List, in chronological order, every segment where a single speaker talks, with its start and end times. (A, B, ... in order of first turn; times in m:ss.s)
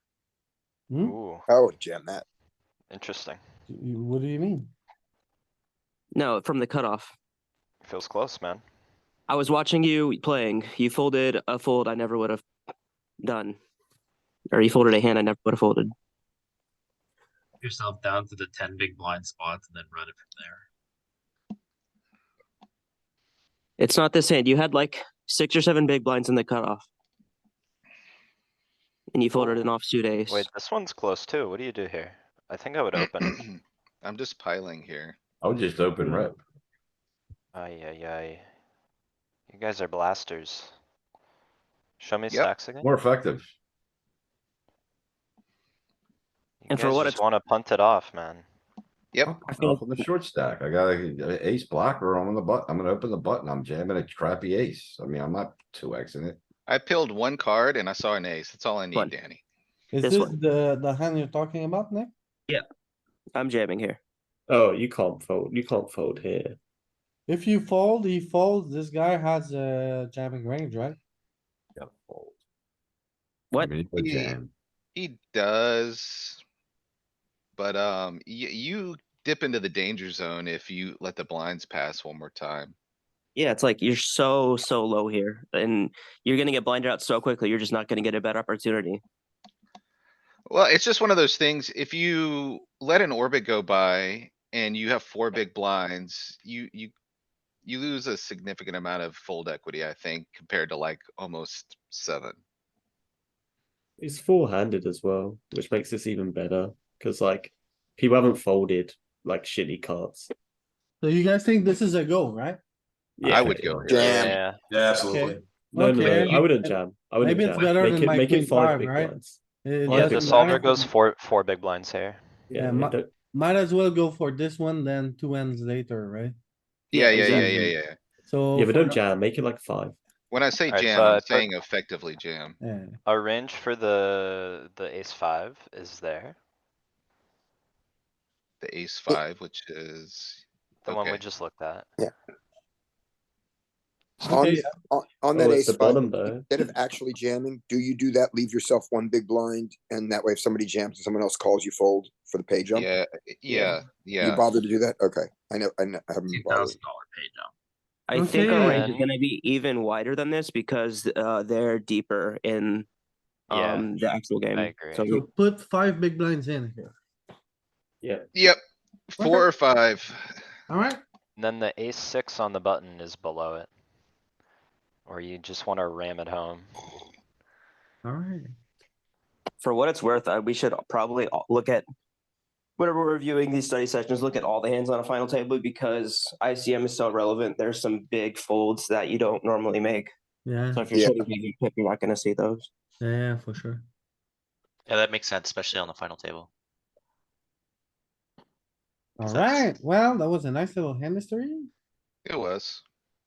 0:00.9-0:01.2 A
0:01.0-0:01.4 B
0:01.5-0:02.2 C
0:02.9-0:03.4 B
0:03.7-0:04.7 A
0:06.1-0:07.1 D
0:07.8-0:08.6 B
0:09.3-0:12.4 D
0:13.2-0:13.6 D
0:14.5-0:15.9 D
0:17.6-0:20.6 E
0:23.8-0:26.9 D
0:29.1-0:30.4 D
0:29.3-0:29.7 B
0:30.3-0:33.4 B
0:33.3-0:35.2 F
0:35.4-0:36.4 G
0:37.5-0:38.4 B
0:39.5-0:40.7 B
0:42.0-0:42.9 B
0:42.8-0:43.5 G
0:46.6-0:48.4 B
0:46.7-0:47.2 D
0:49.2-0:56.4 G
0:49.5-0:50.0 D
0:56.7-0:59.4 F
0:59.9-1:02.1 A
1:00.0-1:00.3 D
1:03.3-1:04.0 D
1:04.5-1:06.6 H
1:07.3-1:11.0 A
1:11.8-1:12.4 G
1:13.6-1:14.5 G
1:14.0-1:14.4 F
1:14.9-1:16.4 F
1:17.6-1:22.7 F
1:23.3-1:29.0 D
1:30.5-1:36.9 F
1:37.6-1:42.4 F
1:44.0-1:50.3 H
1:51.0-1:52.6 A
1:53.2-1:53.8 H
1:53.2-1:54.3 F
1:53.3-1:53.9 G
1:53.8-1:55.4 C
1:53.9-1:54.6 B
1:55.0-2:00.9 A
1:55.7-2:00.6 H
1:59.9-2:02.2 B
2:02.5-2:03.1 H
2:02.6-2:06.3 A
2:06.9-2:08.0 F
2:06.9-2:07.4 D
2:07.2-2:07.5 H
2:07.4-2:07.7 A
2:08.2-2:09.0 A
2:08.5-2:10.0 H
2:10.3-2:12.6 F
2:10.7-2:11.5 B
2:12.6-2:13.0 A
2:13.0-2:16.4 B
2:18.6-2:21.2 F
2:20.8-2:21.9 B
2:24.2-2:32.9 C
2:24.3-2:24.7 A
2:25.3-2:26.4 H
2:32.7-2:34.5 F
2:34.2-2:36.8 C
2:36.3-2:37.5 E
2:38.1-2:42.9 D
2:38.1-2:38.8 A
2:38.5-2:39.0 B
2:43.5-2:43.9 B
2:43.5-2:45.2 D
2:44.5-2:45.0 B
2:45.1-2:46.9 A
2:48.3-2:48.6 F
2:49.1-2:50.3 F
2:49.2-2:49.5 A
2:50.7-2:51.0 A
2:51.4-2:53.7 B
2:55.1-2:56.7 B
2:58.0-2:58.5 A
2:59.6-3:01.8 D
3:02.8-3:10.1 D
3:10.4-3:10.9 A
3:10.7-3:12.7 D
3:10.9-3:11.2 C
3:13.0-3:13.8 A
3:14.9-3:16.5 I
3:19.2-3:21.7 A
3:19.2-3:19.7 I
3:22.2-3:22.8 F